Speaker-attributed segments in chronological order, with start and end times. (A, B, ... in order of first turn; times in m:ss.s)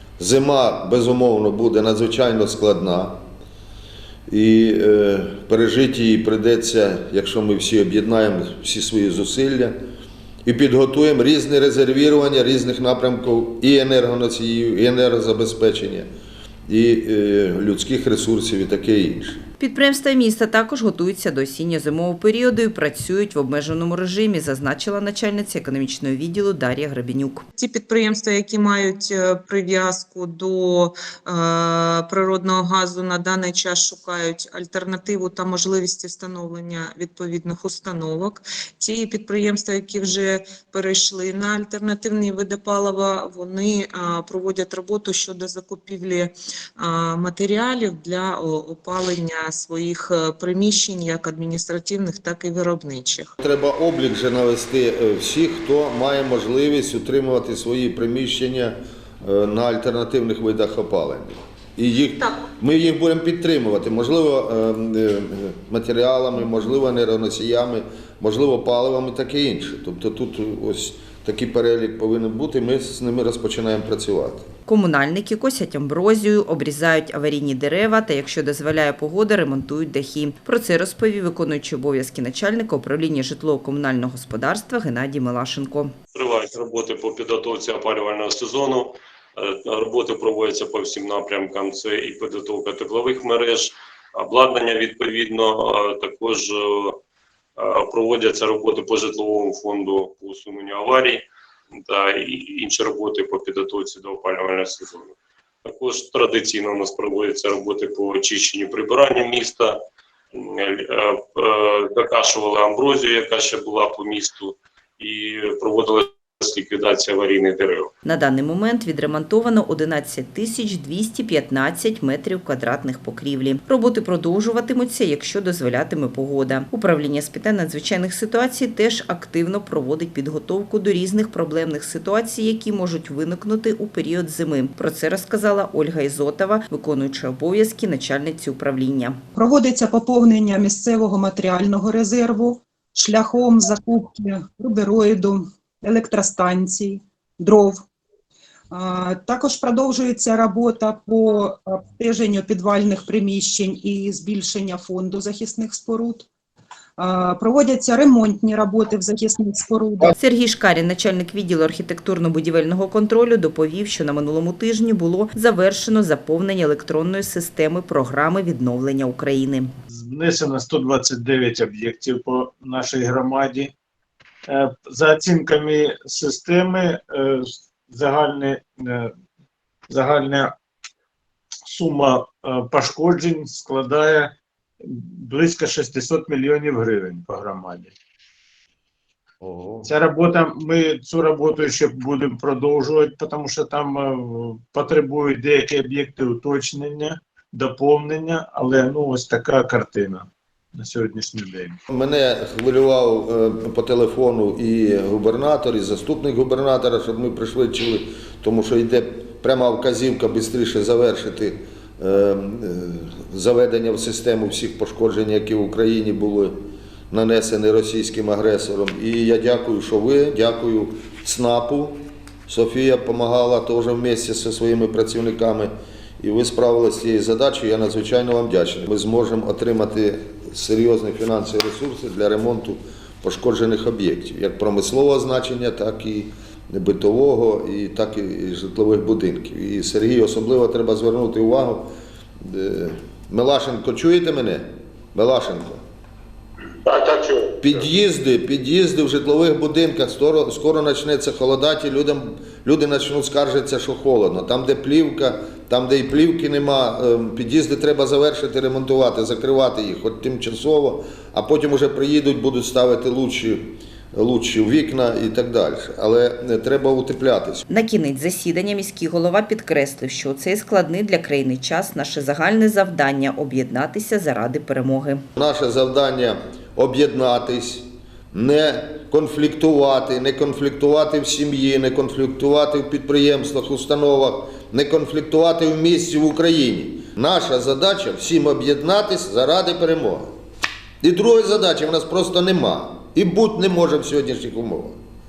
0:00.2-0:03.2 A
0:04.3-0:09.8 A
0:10.4-0:16.1 A
0:16.7-0:19.4 A
0:19.6-0:27.4 B
0:27.6-0:53.3 C
0:53.4-1:14.4 A
1:14.7-1:25.9 B
1:26.1-1:37.0 D
1:37.6-1:41.2 D
1:41.8-1:49.8 D
1:50.3-1:57.9 D
1:58.0-2:19.2 B
2:19.3-2:27.8 E
2:28.7-2:36.3 E
2:37.0-2:40.1 E
2:40.2-2:49.7 B
2:49.9-2:53.7 F
2:54.5-2:59.1 F
2:59.9-3:00.5 F
3:01.7-3:07.9 F
3:09.4-3:09.9 A
3:09.8-3:21.8 F
3:21.9-3:36.6 A
3:37.1-4:01.9 A
4:02.4-4:05.8 A
4:07.0-4:07.5 F
4:07.6-4:27.6 A
4:27.7-4:35.2 B
4:35.4-4:50.3 A
4:51.0-4:55.0 A